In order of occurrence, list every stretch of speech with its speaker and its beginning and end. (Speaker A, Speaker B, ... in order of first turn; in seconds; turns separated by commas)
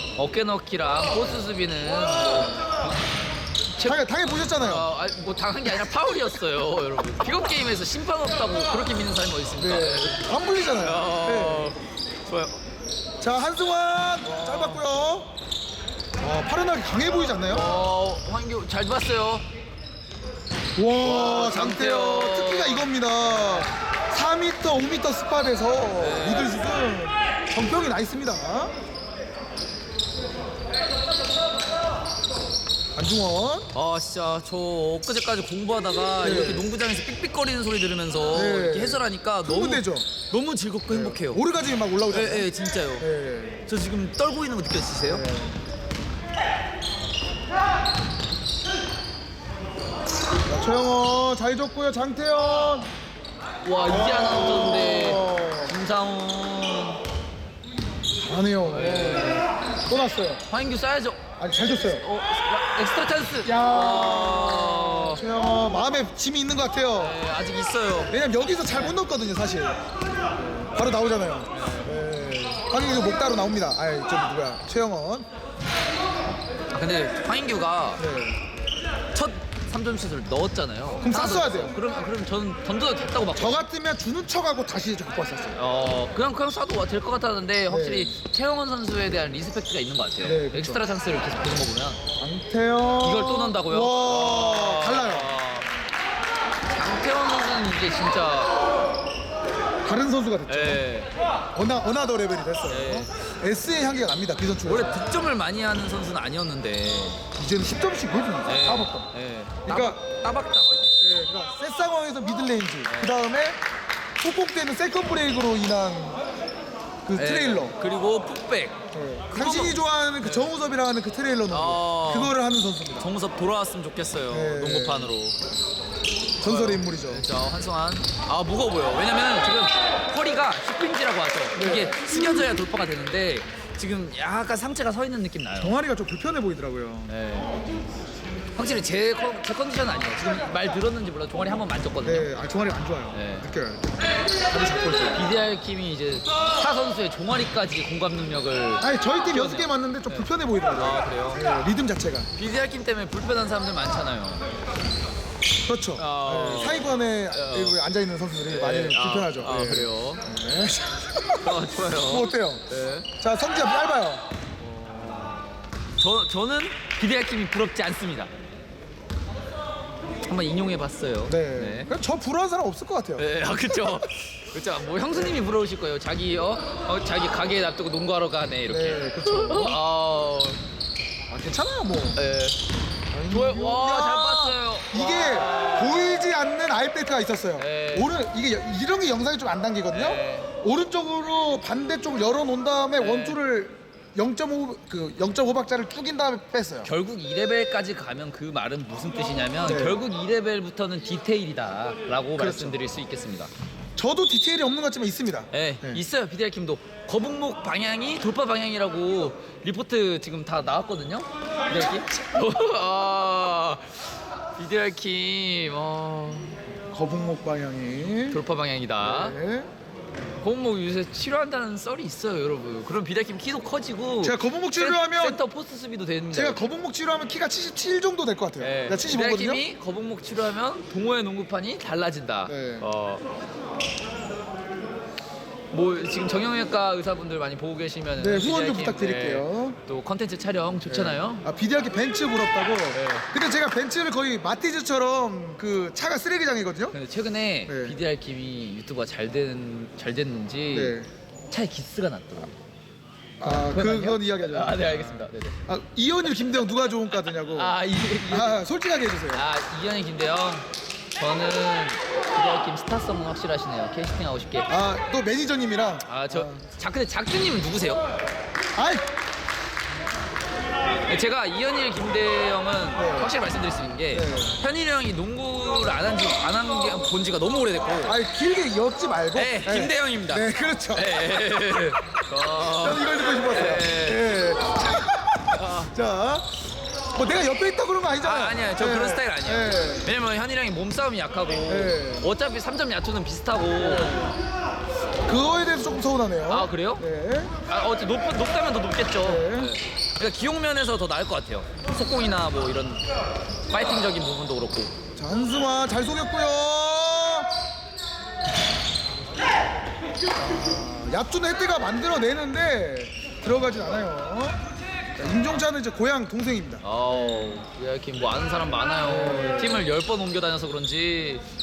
Speaker A: 0.1-3.0, Speaker A: 3.6-12.6, Speaker B: 3.8-4.9, Speaker B: 9.6-11.7, Speaker B: 13.2-15.3, Speaker A: 14.2-14.9, Speaker B: 16.2-17.6, Speaker A: 17.4-19.4, Speaker B: 20.8-28.7, Speaker A: 21.0-23.7, Speaker A: 25.9-26.6, Speaker B: 32.9-33.7, Speaker A: 33.7-41.5, Speaker B: 36.2-36.7, Speaker B: 38.3-40.2, Speaker B: 40.9-43.6, Speaker A: 42.1-43.1, Speaker A: 43.6-45.3, Speaker B: 45.1-45.5, Speaker B: 50.5-52.9, Speaker A: 53.6-57.0, Speaker B: 53.8-55.7, Speaker B: 58.2-60.4, Speaker A: 58.6-59.5, Speaker A: 60.5-65.2, Speaker B: 61.4-62.0, Speaker B: 63.4-67.2, Speaker A: 67.0-69.0, Speaker B: 68.1-69.8, Speaker B: 70.4-75.3, Speaker A: 71.5-72.0, Speaker A: 76.7-78.0, Speaker B: 78.0-78.4, Speaker A: 79.1-83.7, Speaker B: 81.0-81.8, Speaker B: 83.3-85.6, Speaker A: 85.5-92.0, Speaker B: 87.7-88.2, Speaker B: 90.2-90.8, Speaker B: 92.2-95.3, Speaker A: 93.0-95.7, Speaker A: 96.7-98.5, Speaker B: 99.8-100.8, Speaker A: 100.5-101.1, Speaker B: 101.5-105.0, Speaker A: 102.7-103.1, Speaker A: 104.6-107.2, Speaker B: 107.3-109.1, Speaker A: 108.4-111.0, Speaker B: 109.6-110.0, Speaker B: 111.0-113.6, Speaker A: 112.9-113.2, Speaker B: 114.2-116.2, Speaker B: 117.0-117.7, Speaker A: 117.1-120.5, Speaker B: 118.9-123.1, Speaker A: 121.5-122.4, Speaker A: 123.0-125.3, Speaker B: 124.3-125.1, Speaker B: 126.4-127.3, Speaker A: 126.4-135.8, Speaker B: 131.5-132.5, Speaker B: 135.6-137.1, Speaker A: 137.1-137.7, Speaker A: 138.5-142.3, Speaker B: 142.0-145.2, Speaker A: 143.1-143.5, Speaker A: 145.1-151.4, Speaker B: 148.8-152.3, Speaker A: 152.3-154.4, Speaker B: 155.7-164.2, Speaker A: 156.0-157.8, Speaker A: 158.5-160.2, Speaker A: 161.4-163.1, Speaker A: 164.6-168.3, Speaker A: 170.2-171.9, Speaker B: 171.3-174.1, Speaker A: 173.2-180.6, Speaker B: 178.7-179.8, Speaker B: 181.3-182.2, Speaker A: 182.1-182.6, Speaker B: 183.1-196.9, Speaker A: 183.3-186.3, Speaker A: 187.6-188.1, Speaker A: 189.9-190.5, Speaker A: 193.0-193.4, Speaker A: 196.8-203.5, Speaker B: 199.6-200.0, Speaker B: 202.4-202.8, Speaker B: 204.0-206.0, Speaker A: 205.5-216.6, Speaker B: 216.9-218.4, Speaker A: 218.3-219.4, Speaker B: 219.0-219.7, Speaker A: 220.4-226.6, Speaker B: 224.2-225.4, Speaker B: 226.3-229.6, Speaker A: 228.6-233.2, Speaker B: 232.5-232.9, Speaker A: 235.7-241.5, Speaker B: 238.2-239.8, Speaker B: 240.8-246.9, Speaker A: 242.9-243.3, Speaker A: 246.9-251.0, Speaker B: 247.7-248.0, Speaker B: 250.7-251.1, Speaker A: 251.5-252.5, Speaker A: 253.4-255.6, Speaker B: 253.4-259.4, Speaker A: 257.5-258.6, Speaker A: 259.3-260.6, Speaker A: 261.2-264.7, Speaker B: 264.7-266.7, Speaker A: 266.1-268.0, Speaker B: 268.8-269.0, Speaker A: 271.1-278.2, Speaker B: 272.9-273.3, Speaker B: 274.1-274.6, Speaker B: 278.0-281.1, Speaker A: 279.3-284.3, Speaker B: 282.6-286.6, Speaker A: 285.5-285.9, Speaker B: 287.1-290.1, Speaker A: 288.2-294.3, Speaker B: 291.7-292.3, Speaker B: 293.8-294.3, Speaker B: 295.3-297.5, Speaker A: 296.5-297.1, Speaker A: 297.7-303.0, Speaker B: 299.2-299.7, Speaker A: 303.7-304.9, Speaker B: 305.1-307.5, Speaker B: 310.5-314.6, Speaker B: 315.2-317.6, Speaker A: 316.8-321.4, Speaker B: 319.0-319.9